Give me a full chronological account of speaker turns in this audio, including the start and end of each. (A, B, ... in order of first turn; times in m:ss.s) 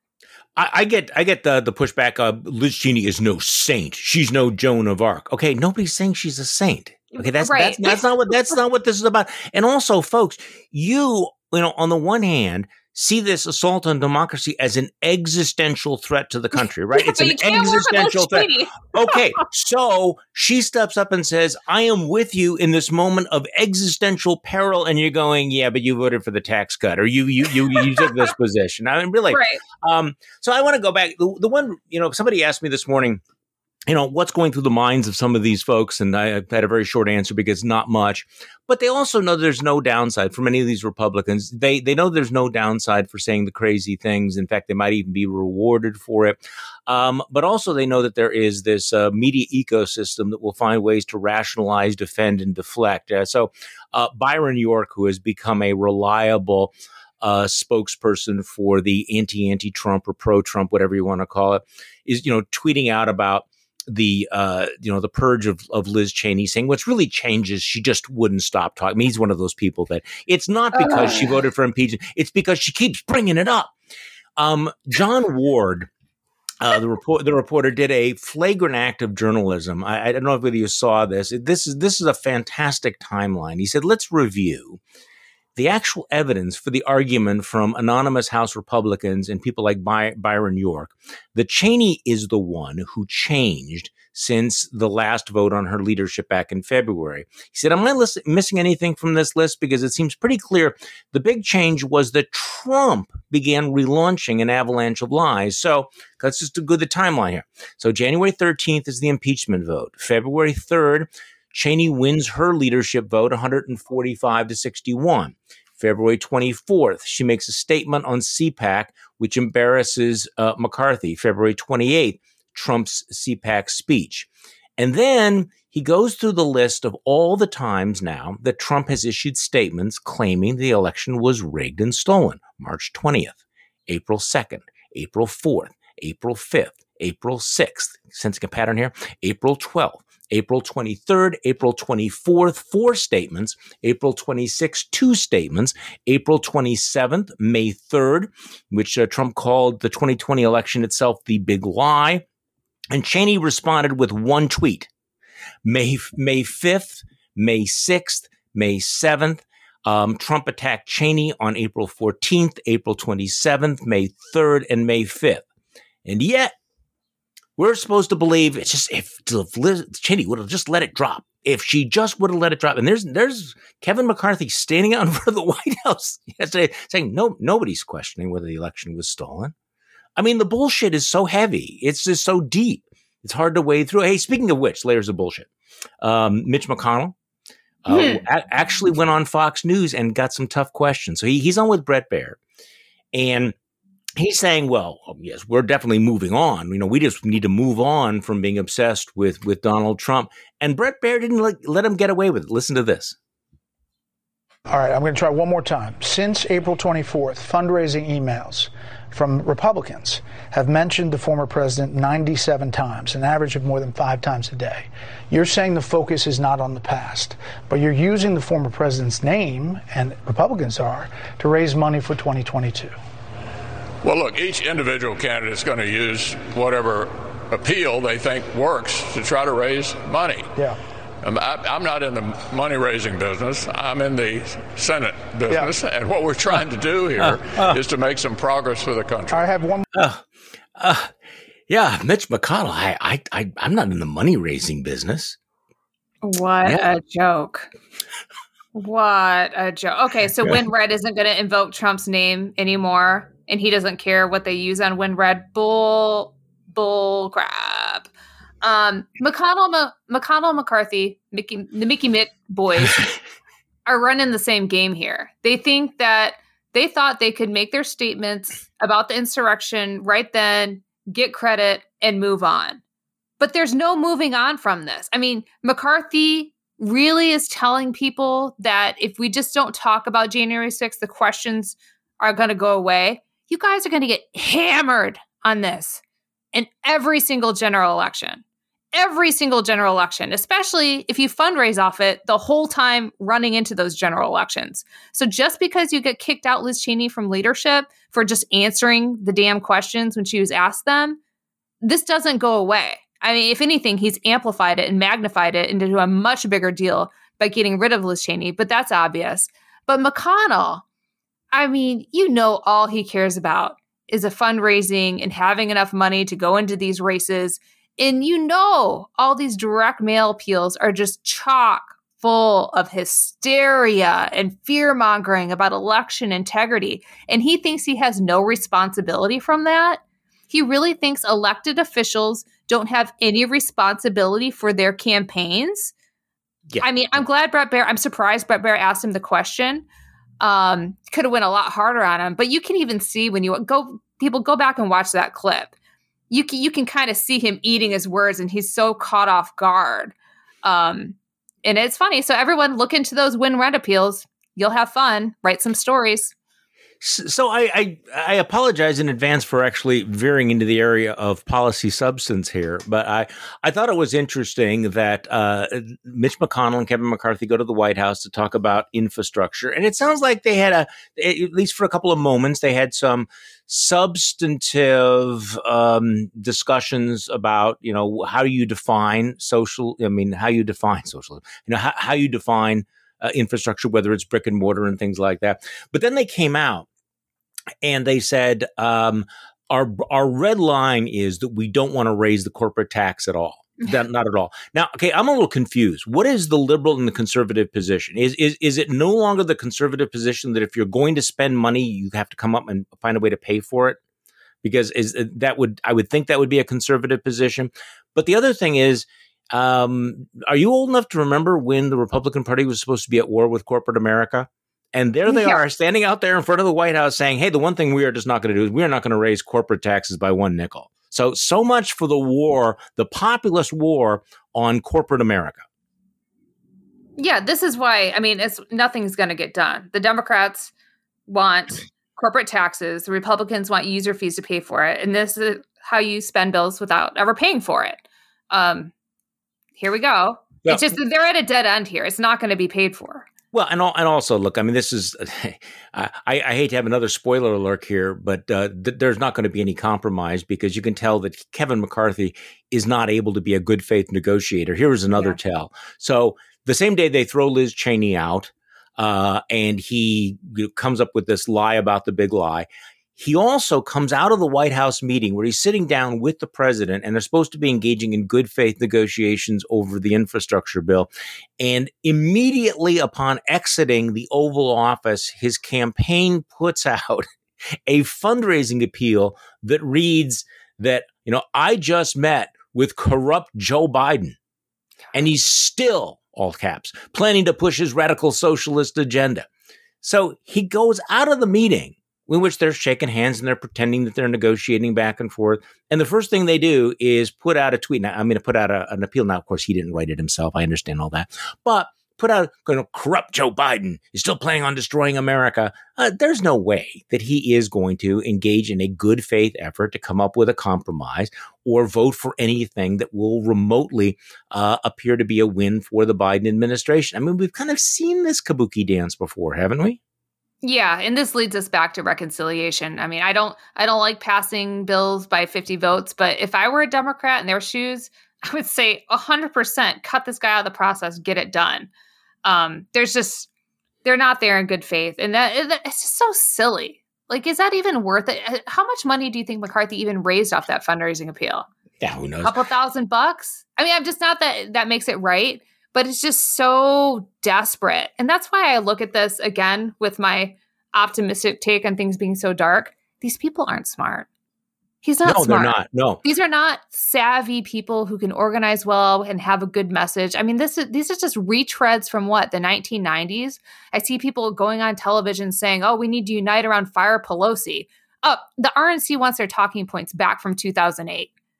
0:00.6-0:33.2 A
0:07.2-0:08.0 B
0:17.0-0:19.4 B
0:29.3-0:29.6 B
0:33.9-1:13.7 A
1:10.8-1:11.3 B
1:14.4-1:15.9 A
1:16.6-1:24.8 A
1:25.6-2:32.2 A
2:32.9-2:34.9 A
2:35.6-2:45.4 A
2:46.0-2:46.6 A
2:47.6-2:59.5 A
3:00.2-3:05.5 A
3:06.0-3:07.2 A
3:07.8-3:12.4 A
3:07.9-3:08.2 B
3:13.1-3:13.6 A
3:14.2-3:23.2 A
3:24.7-3:43.0 C
3:44.0-3:50.5 D
3:51.2-3:59.5 D
3:57.2-3:57.8 A
3:59.3-3:59.9 C
3:59.9-4:00.2 A
4:00.8-4:01.1 A
4:01.7-4:05.4 A
4:06.2-4:07.7 B
4:08.8-4:18.1 B
4:18.6-4:23.1 B
4:23.9-4:32.8 B
4:33.4-4:46.0 B
4:46.5-4:48.4 B
4:48.9-5:01.2 B
5:01.8-5:10.8 B
5:11.5-5:35.9 B
5:36.8-5:39.9 B
5:40.4-5:45.7 B
5:46.3-5:56.3 B
5:57.0-6:26.9 A
6:27.8-6:44.0 A
6:44.6-7:05.6 A
6:55.3-6:55.6 B
7:07.2-7:10.7 B
7:11.3-7:18.9 B
7:19.8-7:23.3 B
7:20.6-7:21.0 A
7:23.5-7:57.3 A
7:35.1-7:35.4 B
7:57.9-8:04.4 A
8:05.1-8:09.5 A
8:10.0-8:40.0 A
8:40.6-8:51.9 B
8:52.4-8:53.5 B
8:54.0-9:01.7 B
9:02.0-9:02.6 A
9:02.4-9:14.3 B
9:15.0-9:31.3 B
9:15.2-9:16.2 A